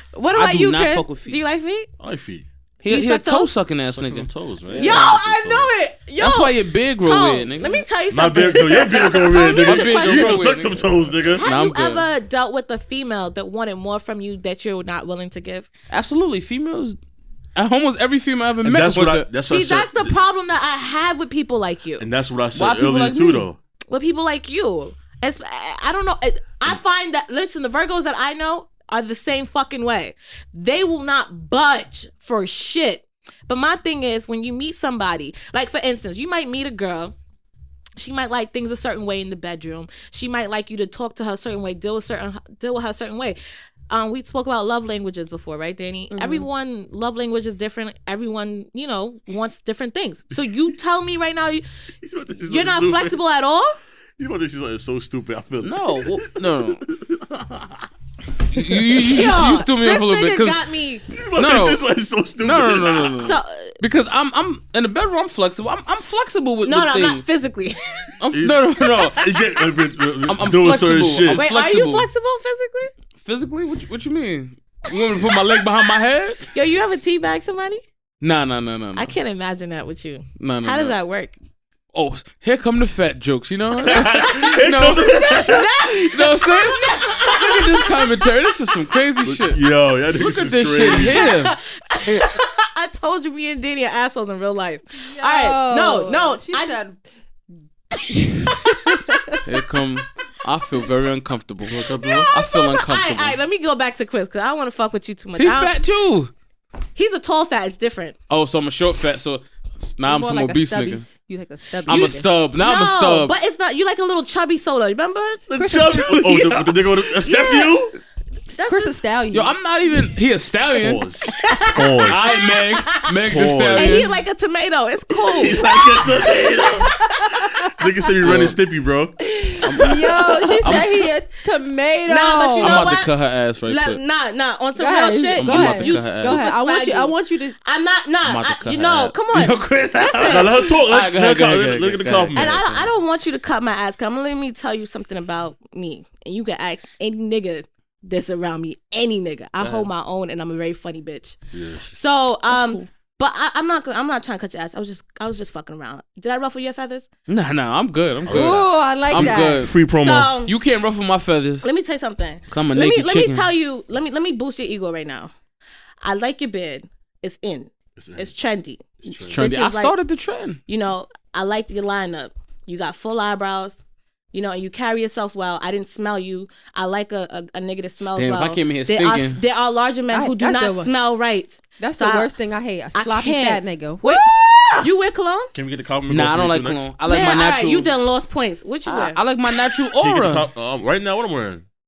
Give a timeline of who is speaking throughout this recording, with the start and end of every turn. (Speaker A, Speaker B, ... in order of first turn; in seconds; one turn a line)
Speaker A: 0.1-1.9
Speaker B: 0.3-1.4
Speaker C: 2.0-2.5
Speaker B: 2.8-5.2
Speaker A: 2.9-3.5
Speaker C: 3.9-5.7
Speaker A: 4.8-10.6
Speaker B: 6.2-7.8
Speaker C: 8.1-11.4
Speaker B: 9.4-12.1
Speaker A: 11.3-15.7
Speaker B: 15.9-17.0
Speaker B: 17.6-19.3
Speaker C: 18.6-20.2
Speaker A: 19.4-22.1
Speaker C: 22.0-23.6
Speaker B: 22.5-23.5
Speaker A: 23.9-37.1
Speaker A: 38.0-43.4
Speaker A: 43.9-51.6
Speaker D: 46.1-46.5
Speaker C: 52.0-53.2
Speaker A: 52.5-53.8
Speaker C: 54.2-57.9
Speaker B: 55.6-56.8
Speaker B: 58.5-60.6
Speaker A: 59.0-61.0
Speaker C: 61.1-63.3
Speaker B: 61.4-61.8
Speaker B: 62.4-67.2
Speaker A: 63.1-63.8
Speaker A: 66.7-68.2
Speaker B: 68.2-69.2
Speaker C: 68.3-71.5
Speaker B: 70.3-72.1
Speaker A: 71.3-72.9
Speaker B: 73.2-76.5
Speaker A: 76.5-77.8
Speaker B: 78.2-79.1
Speaker A: 79.0-81.3
Speaker B: 80.4-81.0
Speaker B: 81.9-89.6
Speaker C: 83.8-85.7
Speaker A: 85.1-88.2
Speaker C: 89.2-91.3
Speaker B: 90.1-91.5
Speaker A: 90.9-96.8
Speaker D: 95.1-97.0
Speaker D: 98.1-99.4
Speaker A: 98.3-99.4
Speaker B: 99.5-103.4
Speaker C: 101.7-102.3
Speaker A: 102.0-105.7
Speaker B: 105.4-106.3
Speaker A: 107.0-108.2
Speaker B: 108.3-109.4
Speaker B: 110.0-111.1
Speaker D: 110.0-112.3
Speaker B: 111.9-113.4
Speaker A: 111.9-115.5
Speaker C: 115.5-118.0
Speaker D: 115.6-116.4
Speaker A: 117.2-117.8
Speaker A: 118.5-119.0
Speaker D: 118.7-119.6
Speaker B: 119.3-121.0
Speaker C: 120.8-122.3
Speaker A: 121.4-123.2
Speaker B: 122.1-124.1
Speaker C: 123.3-124.1
Speaker A: 123.7-127.5
Speaker C: 125.2-129.2
Speaker B: 128.2-128.6
Speaker D: 129.3-132.8
Speaker B: 129.6-131.0
Speaker A: 132.1-133.1
Speaker B: 132.6-134.0
Speaker A: 133.6-140.6
Speaker D: 134.8-137.6
Speaker B: 135.4-136.4
Speaker B: 138.2-142.8
Speaker C: 140.3-142.9
Speaker A: 142.3-151.4
Speaker C: 151.5-151.9
Speaker A: 151.9-157.1
Speaker B: 152.5-152.8
Speaker B: 157.3-159.8
Speaker C: 158.2-160.4
Speaker D: 158.3-159.7
Speaker A: 160.0-160.5
Speaker B: 160.5-161.7
Speaker A: 161.6-165.3
Speaker B: 162.5-163.5
Speaker A: 166.0-170.0
Speaker C: 168.0-168.3
Speaker C: 169.0-169.4
Speaker B: 169.3-170.6
Speaker A: 170.7-173.8
Speaker A: 174.3-182.3
Speaker B: 178.0-179.4
Speaker D: 180.1-180.9
Speaker D: 181.8-184.9
Speaker A: 182.9-185.5
Speaker C: 185.5-186.9
Speaker B: 186.1-187.9
Speaker A: 187.1-189.2
Speaker B: 188.9-190.5
Speaker C: 190.0-191.7